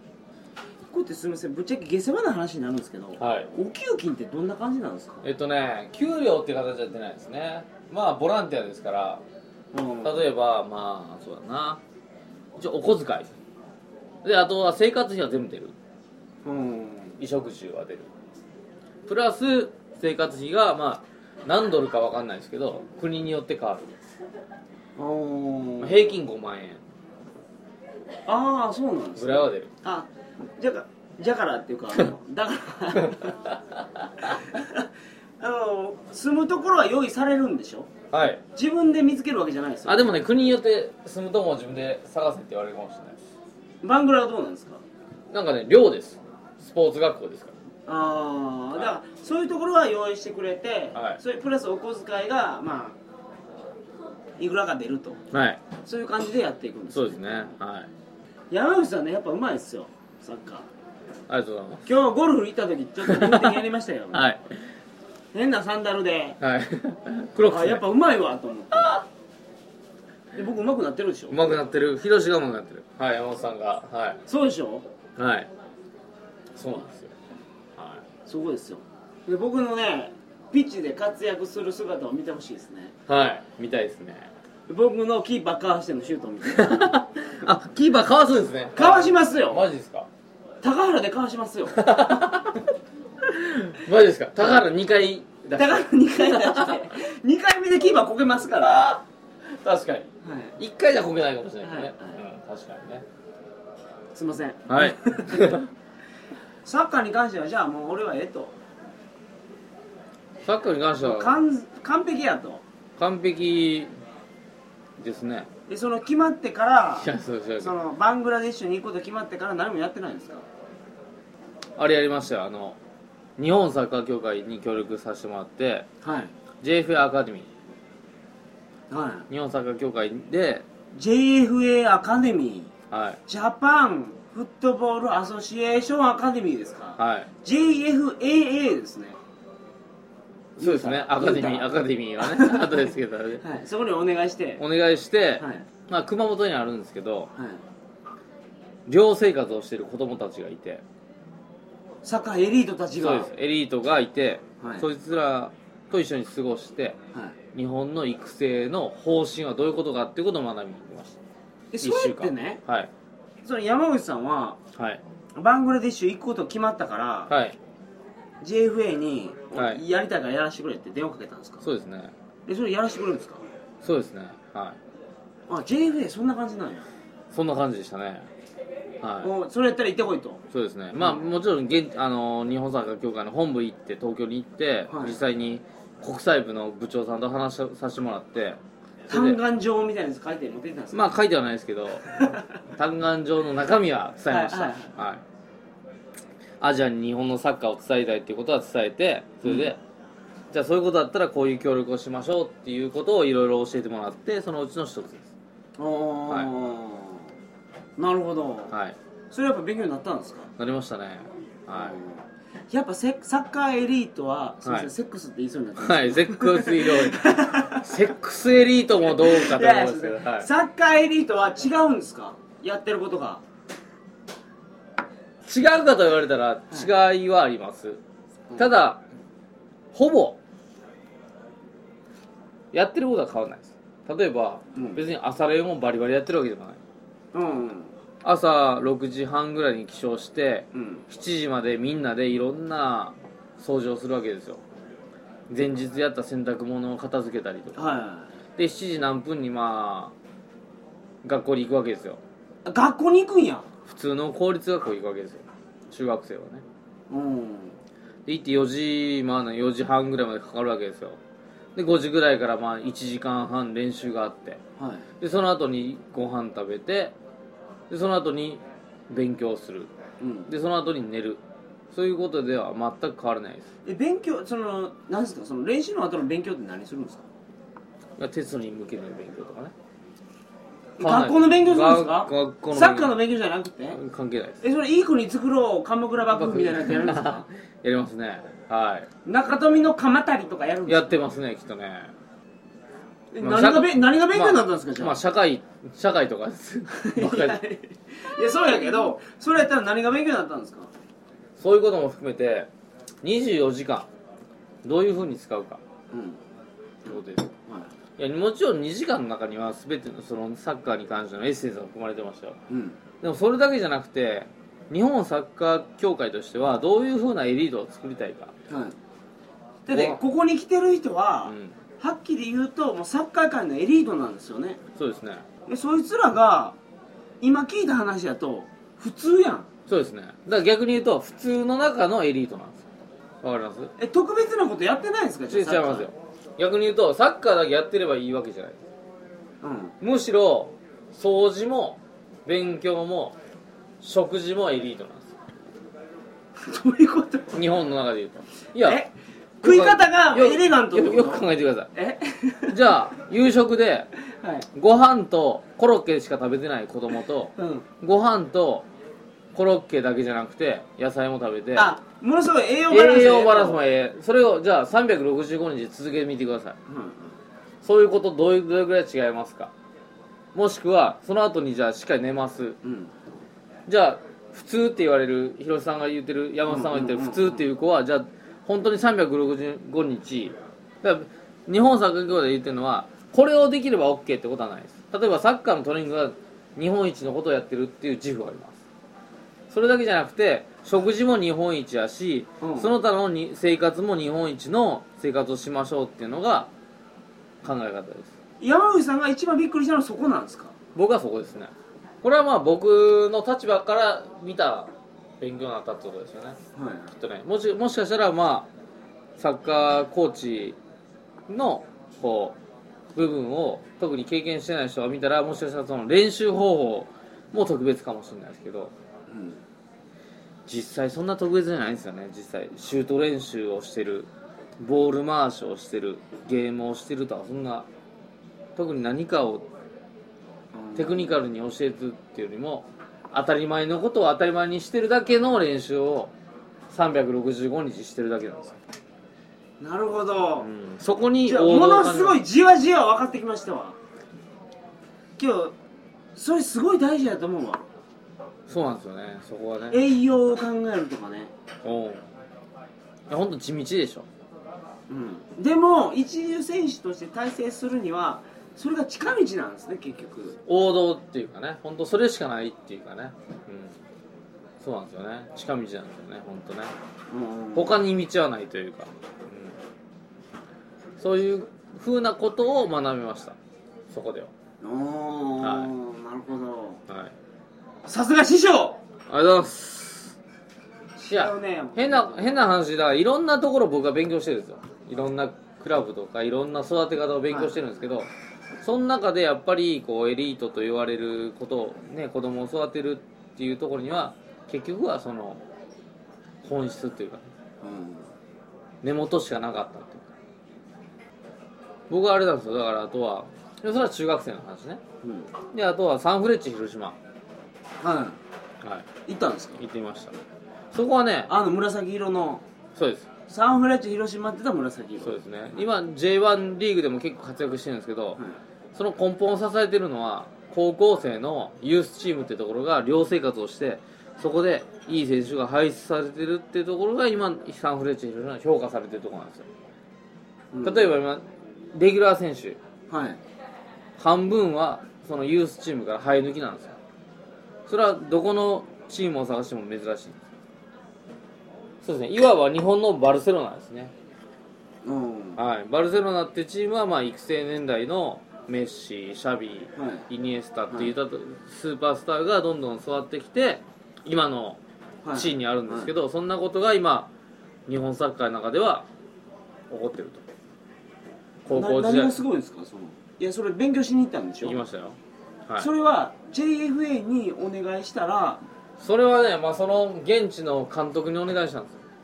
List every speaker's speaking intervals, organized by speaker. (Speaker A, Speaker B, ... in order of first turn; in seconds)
Speaker A: 0.9-5.2, 9.7-10.3, 16.4-17.2, 25.0-26.2, 28.3-33.4, 34.2-37.9, 38.5-40.2, 43.8-44.8, 47.9-53.0, 54.4-55.2, 55.9-57.6, 58.5-60.7, 61.9-64.3, 65.3-66.4, 67.5-69.0, 70.3-71.4, 74.3-74.9, 78.3-83.0, 84.7-87.0, 88.8-89.7, 90.6-91.8, 95.5-98.9, 100.2-100.6, 101.6-102.2, 104.1-105.6, 106.7-108.5, 111.0-112.6, 115.7-120.5, 126.0-126.3, 128.9-129.3, 130.9-132.7, 133.3-139.2, 140.6-142.9, 143.4-144.6, 145.4-145.7, 147.3-147.6, 152.0-153.3, 154.6-154.9, 161.7-162.6, 163.4-164.6, 165.4-167.3, 168.4-171.6, 172.5-173.4, 175.5-176.9, 179.2-180.4, 184.9-185.2, 189.1-191.1, 192.1-192.4, 194.3-194.9, 199.4-199.7, 205.8-207.3, 208.0-208.8, 209.3-210.5, 211.7-217.9, 219.1-223.4, 234.8-235.0, 237.3-237.9, 240.7-241.1, 247.8-248.4, 252.7-253.7, 257.1-257.8, 264.8-265.1, 270.2-270.5, 273.9-277.2, 281.0-284.0, 284.6-287.5, 289.2-291.2, 293.3-295.2, 297.0-300.9, 306.1-306.4, 307.1-307.9, 312.7-313.0, 318.7-319.0, 319.9-324.8, 325.7-326.8, 327.4-329.7, 334.0-336.1, 339.6-339.9, 346.6-347.6, 348.8-352.9, 354.3-354.7, 357.6-357.9, 361.8-363.8, 366.9-367.4, 372.8-373.2, 376.7-377.6, 392.6-392.9, 398.6-400.8, 406.8-407.1, 419.3-419.6, 430.7-431.4, 439.8-440.7, 441.4-444.0, 445.4-445.8, 446.4-447.9, 449.9-451.5, 455.1-460.6, 467.3-468.0, 474.8-477.0, 478.1-479.0, 481.2-482.7, 487.5-487.8, 497.8-498.3, 505.2-505.5, 508.0-508.4, 509.3-509.8, 511.5-512.6, 513.5-515.4, 530.7-531.1, 533.1-533.4, 545.0-545.6, 550.0-550.3, 555.2-556.1, 561.7-564.8, 565.8-568.6
Speaker B: 3.2-3.5, 5.2-9.2, 10.0-11.8, 12.6-13.3, 14.2-15.8, 17.2-18.1, 19.1-23.9, 25.8-26.8, 29.2-29.7, 33.1-34.1, 38.1-38.4, 39.9-43.2, 45.3-47.5, 50.9-51.2, 55.3-55.6, 56.9-57.9, 61.3-61.9, 63.0-63.6, 64.1-64.6, 66.4-67.8, 71.3-74.2, 75.2-75.5, 76.5-77.1, 77.8-78.0, 83.1-84.3, 86.5-90.1, 91.7-92.7, 93.2-96.8, 98.6-103.0, 104.7-105.7, 110.5-111.4, 113.0-113.9, 115.0-115.5, 117.0-117.7, 121.8-122.8, 123.4-125.9, 126.6-127.5, 129.3-130.7, 132.9-133.2, 137.0-137.3, 140.6-143.4, 144.6-147.3, 148.9-150.8, 153.0-157.0, 157.5-161.2, 161.8-162.9, 164.8-165.0, 167.3-167.6, 169.6-169.8, 171.6-172.1, 173.8-174.8, 177.3-178.3, 179.0-179.3, 180.5-189.4, 190.9-195.2, 196.6-199.8, 200.5-205.3, 208.7-209.0, 210.6-212.0, 214.7-214.9, 215.8-220.5, 225.4-228.0, 228.6-229.0, 229.9-230.4, 232.7-236.8, 238.2-244.6, 245.5-247.8, 248.6-250.1, 251.2-252.2, 253.9-256.6, 258.3-261.2, 261.8-264.6, 265.2-267.1, 267.9-269.9, 270.5-273.7, 278.2-279.7, 281.0-283.2, 283.9-284.6, 286.3-289.1, 290.9-292.1, 293.4-297.6, 301.6-302.7, 303.2-304.1, 304.8-305.8, 307.1-307.5, 308.2-312.6, 313.2-318.5, 319.9-320.2, 321.5-321.8, 325.0-325.4, 329.9-332.9, 333.4-333.9, 335.5-338.9, 340.0-343.4, 344.0-345.4, 347.5-349.0, 349.6-351.9, 352.7-354.1, 354.7-358.9, 359.5-361.9, 362.9-366.8, 367.8-369.7, 370.5-372.8, 373.9-388.8, 389.7-396.7, 397.6-398.3, 400.9-401.7, 402.2-408.7, 409.4-410.8, 411.5-412.6, 413.1-418.9, 420.7-427.9, 428.8-429.7, 430.9-436.3, 436.9-438.8, 440.6-442.4, 448.7-450.0, 451.8-452.2, 453.3-454.3, 460.6-464.0, 464.8-466.9, 467.8-469.8, 471.2-473.6, 474.1-474.5, 475.6-475.9, 477.1-477.3, 479.3-480.4, 481.3-488.3, 488.8-495.6, 496.6-497.4, 499.0-500.3, 502.1-505.0, 505.7-507.2, 508.8-509.1, 509.8-510.4, 510.9-511.5, 513.0-513.3, 515.2-518.4, 519.0-529.7, 530.8-532.8, 534.2-537.0, 537.9-540.4, 542.0-544.1, 545.6-554.8, 555.3-557.3, 557.9-559.1, 559.9-560.4, 561.6-562.4, 564.6-565.9, 569.0-572.0